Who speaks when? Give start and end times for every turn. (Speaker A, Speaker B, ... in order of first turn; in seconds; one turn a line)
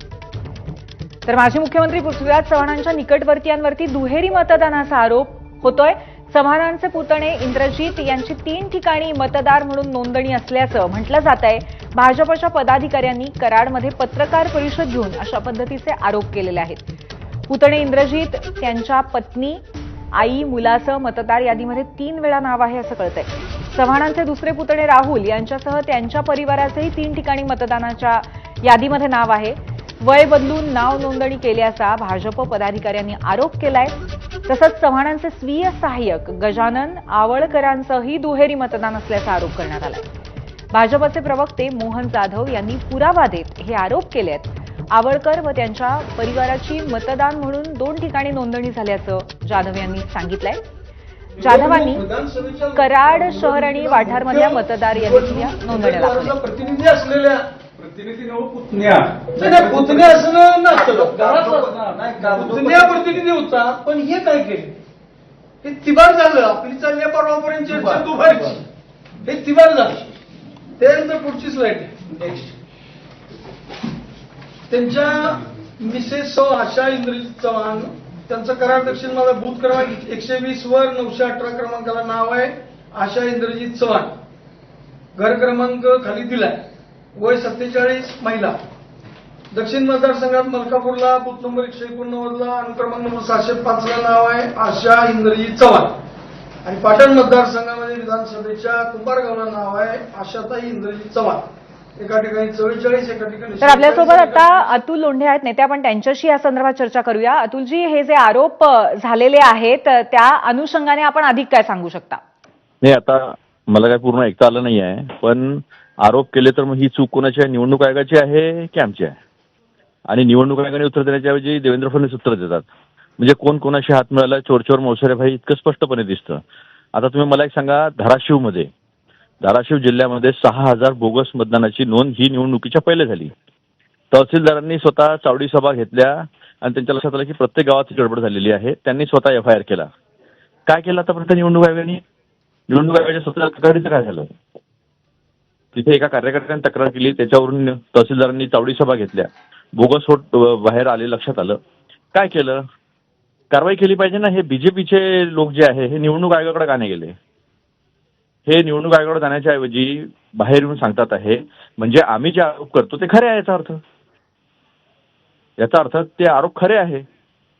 Speaker A: 1.2-16.8
Speaker A: 17.5-19.6
Speaker A: 20.1-34.0
Speaker A: 34.5-40.0
Speaker A: 40.7-50.6
Speaker B: 51.4-57.5
Speaker A: 51.4-52.0
Speaker A: 52.8-56.4
Speaker C: 57.8-60.2
Speaker B: 59.3-61.7
Speaker C: 60.9-63.2
Speaker B: 62.2-64.7
Speaker B: 65.6-68.6
Speaker C: 67.7-68.0
Speaker B: 69.2-70.1
Speaker B: 70.8-72.0
Speaker B: 74.7-84.1
Speaker B: 85.1-86.6
Speaker B: 87.1-88.5
Speaker B: 89.5-95.9
Speaker B: 96.6-101.4
Speaker B: 102.0-104.7
Speaker A: 103.6-112.2
Speaker D: 112.8-119.1
Speaker D: 120.1-122.7
Speaker D: 123.2-126.4
Speaker D: 126.9-128.7
Speaker D: 129.4-133.3
Speaker D: 134.1-139.9
Speaker D: 140.7-142.0
Speaker D: 142.7-144.3
Speaker D: 145.7-151.6
Speaker D: 152.1-152.6
Speaker D: 153.5-157.2
Speaker D: 158.5-163.8
Speaker D: 165.6-167.0